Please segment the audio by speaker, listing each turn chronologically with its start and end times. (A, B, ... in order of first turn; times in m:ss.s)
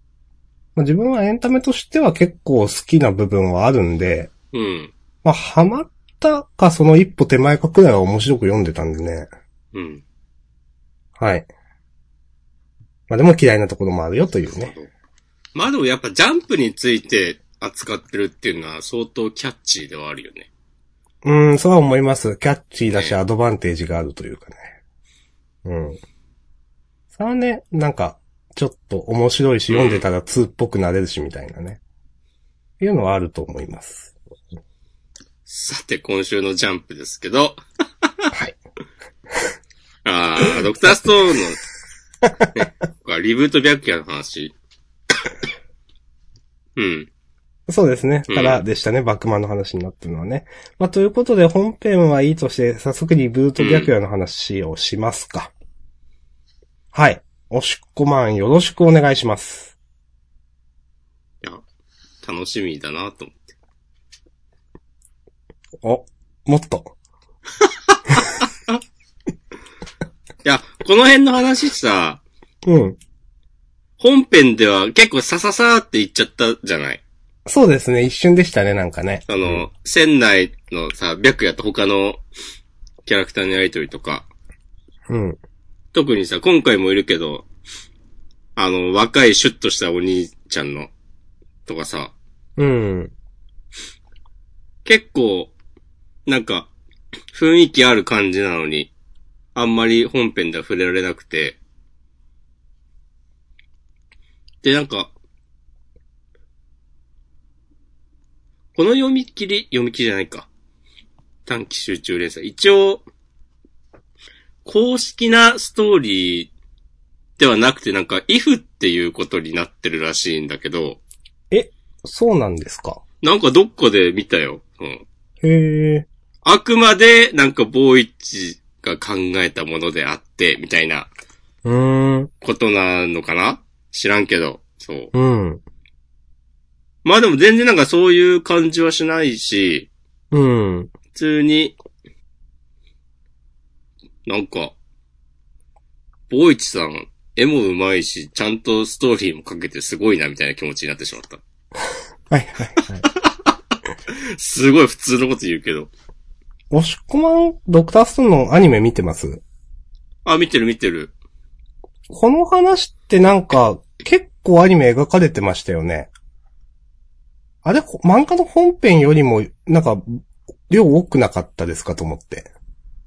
0:00.8-0:04.3 A
0:04.5-0:04.9 B
0:05.2-0:09.3 A
0:09.7-0:10.0 B
0:11.2-0:11.5 A
0:13.1-0:14.7 A
0:14.5-0:14.9 B
0:15.5-0:20.5 B
0:21.2-0:24.7 A
0:22.9-0:23.2 B
0:25.6-0:26.0 A
0:27.1-0:31.8 A
0:29.7-0:30.0 B
0:32.8-0:34.1 A
0:35.5-0:38.3 B
0:40.0-0:41.6 B
0:42.5-0:44.5 B
0:46.8-0:47.1 B
0:47.7-0:55.5 A
0:48.3-0:48.6 B
0:53.6-0:53.9 B
0:56.9-0:59.7 A
1:02.2-1:03.5 B
1:05.8-1:06.9 A
1:10.4-1:12.2 B
1:12.6-1:13.0 A
1:14.0-1:17.0 B
1:17.5-1:19.6 A
1:19.3-1:22.2 B
1:23.0-1:24.3 B
1:25.1-1:25.4 A
1:25.9-1:27.4 B
1:28.6-1:30.9 B
1:31.6-1:32.1 B
1:32.6-1:33.1 A
1:34.8-1:35.5 B
1:36.2-1:36.7 B
1:37.3-1:38.9 B
1:39.5-1:41.6 B
1:44.6-1:45.1 B
1:48.7-1:50.5 B
1:51.4-1:53.0 B
1:54.6-1:56.5 B
1:57.4-2:01.0 B
2:01.5-2:03.0 A
2:03.2-2:05.0 B
2:05.4-2:06.1 A
2:06.4-2:11.1 B
2:11.6-2:12.3 A
2:12.4-2:15.1 B
2:15.1-2:15.6 A
2:17.0-2:19.9 B
2:20.3-2:20.9 A
2:21.1-2:21.8 B
2:24.2-2:24.7 B
2:26.3-2:31.4 B
2:32.3-2:33.0 A
2:34.1-2:35.9 B
2:36.7-2:39.4 A
2:40.2-2:41.1 B
2:42.1-2:46.1 A
2:47.6-2:52.5 A